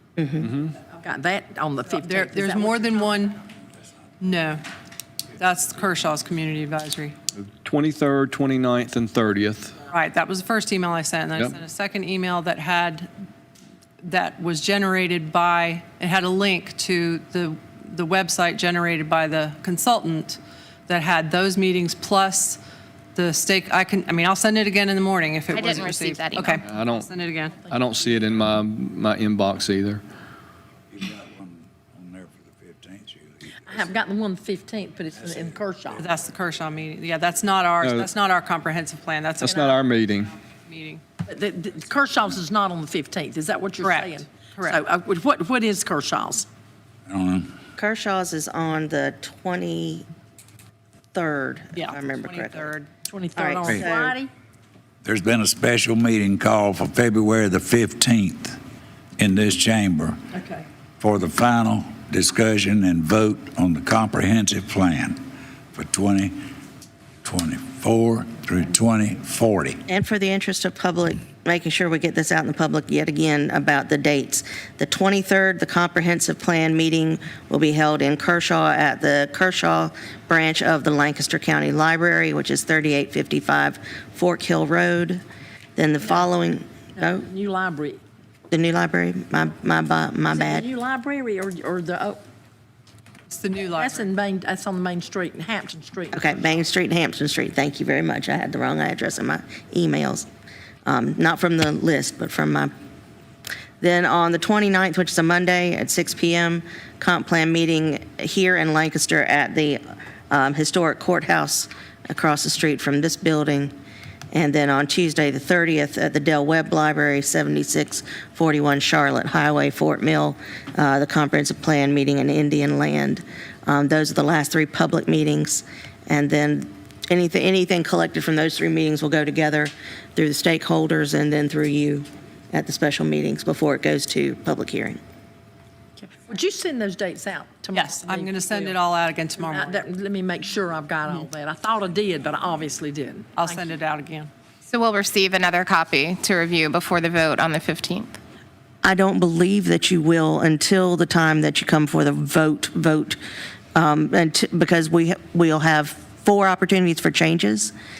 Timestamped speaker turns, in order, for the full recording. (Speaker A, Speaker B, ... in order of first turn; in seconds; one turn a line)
Speaker A: 0.2-0.5
Speaker B: 0.4-0.8
Speaker C: 0.8-3.1
Speaker D: 2.0-3.4
Speaker D: 4.2-4.6
Speaker D: 5.4-7.2
Speaker B: 7.4-9.8
Speaker D: 9.9-13.1
Speaker D: 14.0-22.6
Speaker D: 23.1-27.6
Speaker E: 25.5-26.6
Speaker B: 26.6-27.1
Speaker C: 26.7-28.3
Speaker B: 27.6-30.0
Speaker F: 30.9-33.9
Speaker C: 33.6-36.0
Speaker F: 35.1-36.0
Speaker D: 36.0-39.8
Speaker B: 37.8-38.1
Speaker B: 39.4-40.3
Speaker C: 39.4-39.7
Speaker D: 40.5-41.0
Speaker C: 41.2-46.5
Speaker D: 43.8-44.8
Speaker F: 47.1-47.5
Speaker A: 47.8-50.0
Speaker A: 51.1-52.7
Speaker D: 51.9-52.9
Speaker C: 53.1-54.3
Speaker A: 53.4-54.2
Speaker F: 55.0-58.6
Speaker F: 59.2-60.2
Speaker C: 60.3-60.6
Speaker F: 61.0-65.2
Speaker F: 65.7-66.4
Speaker F: 67.2-69.8
Speaker A: 69.9-85.2
Speaker A: 85.8-87.2
Speaker C: 87.0-88.0
Speaker A: 88.5-90.7
Speaker C: 90.3-92.2
Speaker D: 93.3-94.1
Speaker C: 93.6-96.2
Speaker A: 96.1-100.3
Speaker A: 100.8-102.7
Speaker A: 103.8-113.7
Speaker A: 114.3-135.0
Speaker C: 136.0-138.8
Speaker D: 137.7-139.8
Speaker C: 139.4-143.7
Speaker D: 143.3-144.3
Speaker E: 144.7-148.2
Speaker A: 148.8-153.2
Speaker A: 153.7-157.7